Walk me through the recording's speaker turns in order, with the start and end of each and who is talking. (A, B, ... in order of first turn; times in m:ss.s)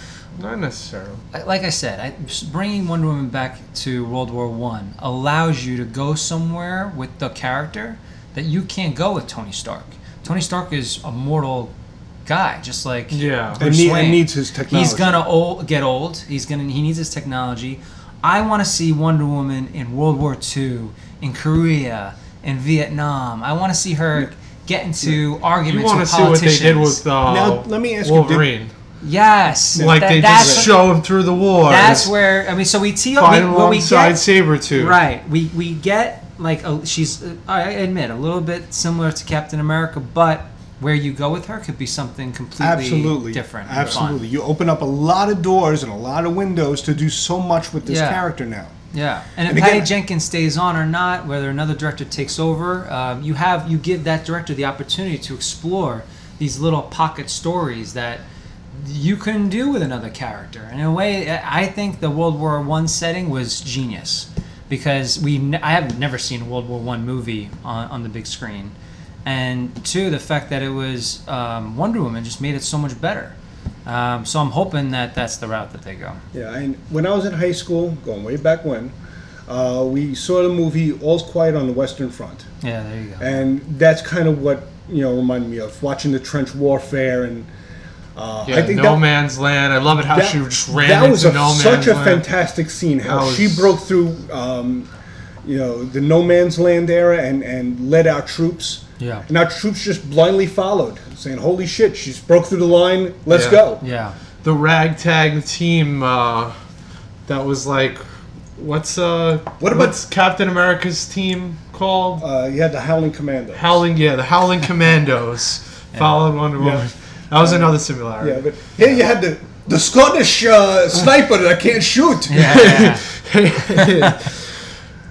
0:00.3-0:01.2 A
0:01.3-0:11.7 B
0:12.2-0:27.0 B
0:13.1-0:13.6 A
0:13.6-0:15.2 C
0:25.6-0:28.7 A
0:27.2-0:28.5 C
0:29.0-0:30.9 B
0:29.7-0:30.7 C
0:29.7-0:32.1 A
0:31.6-0:34.2 B
0:33.2-0:35.0 A
0:34.7-0:44.2 B
0:42.6-0:48.7 C
0:47.8-0:48.2 B
0:48.9-1:16.2 B
0:49.4-0:49.9 C
1:16.3-1:18.9 C
1:19.5-1:22.5 C
1:22.6-1:23.4 B
1:23.2-1:27.5 C
1:28.2-1:29.0 C
1:28.5-1:32.3 A
1:30.0-1:34.9 C
1:33.0-1:33.8 A
1:35.4-1:43.8 C
1:39.0-1:39.2 B
1:43.3-1:43.6 A
1:43.8-1:44.2 B
1:44.4-1:46.6 A
1:47.3-1:52.2 A
1:49.6-1:49.9 C
1:52.2-1:53.8 C
1:53.5-1:58.5 A
1:55.9-1:56.2 B
1:56.6-2:03.0 C
2:02.3-2:03.1 B
2:02.4-2:04.6 A
2:03.8-2:04.1 B